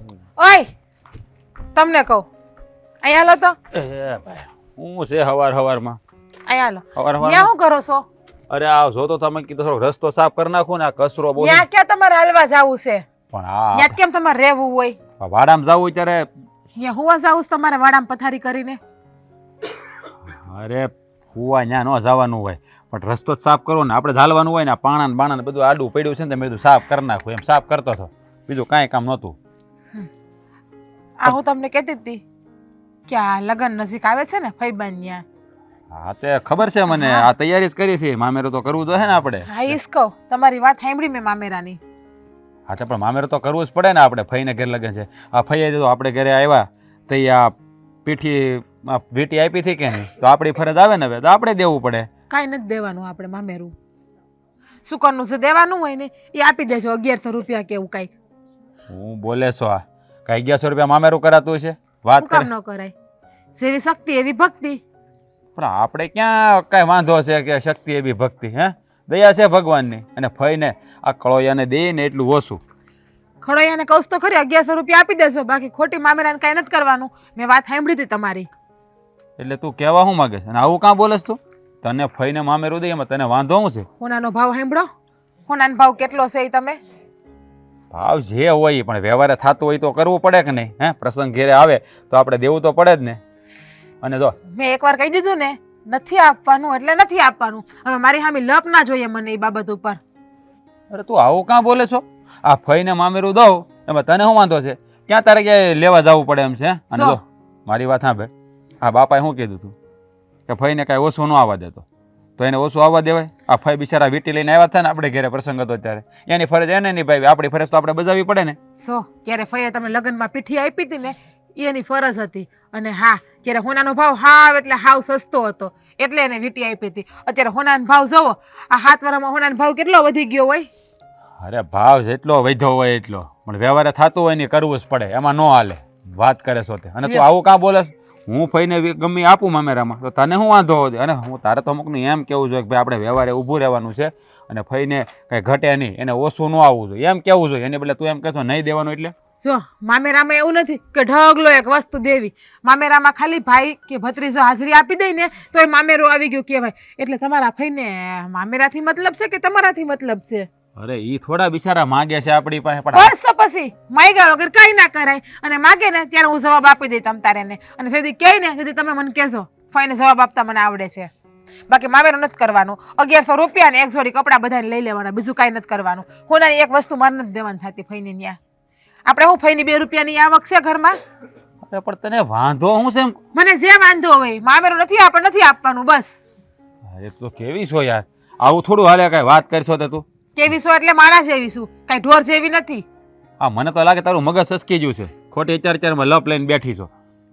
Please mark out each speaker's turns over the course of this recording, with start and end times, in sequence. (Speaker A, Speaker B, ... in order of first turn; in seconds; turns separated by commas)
Speaker A: 0.4-0.7, Speaker A: 1.8-2.3, Speaker A: 3.0-3.6, Speaker B: 3.7-6.0, Speaker A: 6.5-8.1, Speaker B: 7.0-7.5, Speaker B: 8.5-11.7, Speaker A: 11.4-13.1, Speaker B: 13.3-14.0, Speaker A: 13.8-15.0, Speaker B: 15.2-16.3, Speaker A: 16.8-18.8, Speaker B: 20.2-29.4, Speaker A: 31.2-32.2, Speaker A: 33.1-35.2, Speaker B: 35.9-39.8, Speaker A: 36.9-37.3, Speaker A: 39.5-41.8, Speaker B: 42.7-52.1, Speaker A: 52.3-53.7, Speaker A: 54.9-58.1, Speaker B: 58.9-62.5, Speaker A: 62.2-62.9, Speaker A: 63.6-64.8, Speaker B: 65.6-72.6, Speaker A: 73.4-78.5, Speaker B: 79.4-83.9, Speaker A: 84.0-84.9, Speaker A: 85.5-86.8, Speaker B: 87.9-93.2, Speaker B: 94.0-94.4, Speaker A: 94.5-100.0, Speaker B: 100.9-108.3, Speaker A: 106.9-107.2, Speaker B: 108.8-109.8, Speaker B: 110.5-111.8, Speaker B: 112.4-118.6, Speaker A: 118.8-130.7, Speaker B: 131.4-149.1, Speaker A: 149.4-160.5, Speaker B: 160.8-163.1, Speaker A: 162.9-171.1, Speaker A: 171.7-178.4, Speaker A: 179.1-181.0, Speaker B: 181.6-183.2, Speaker A: 183.3-186.1, Speaker B: 186.9-190.0, Speaker A: 190.4-192.8, Speaker B: 193.4-196.9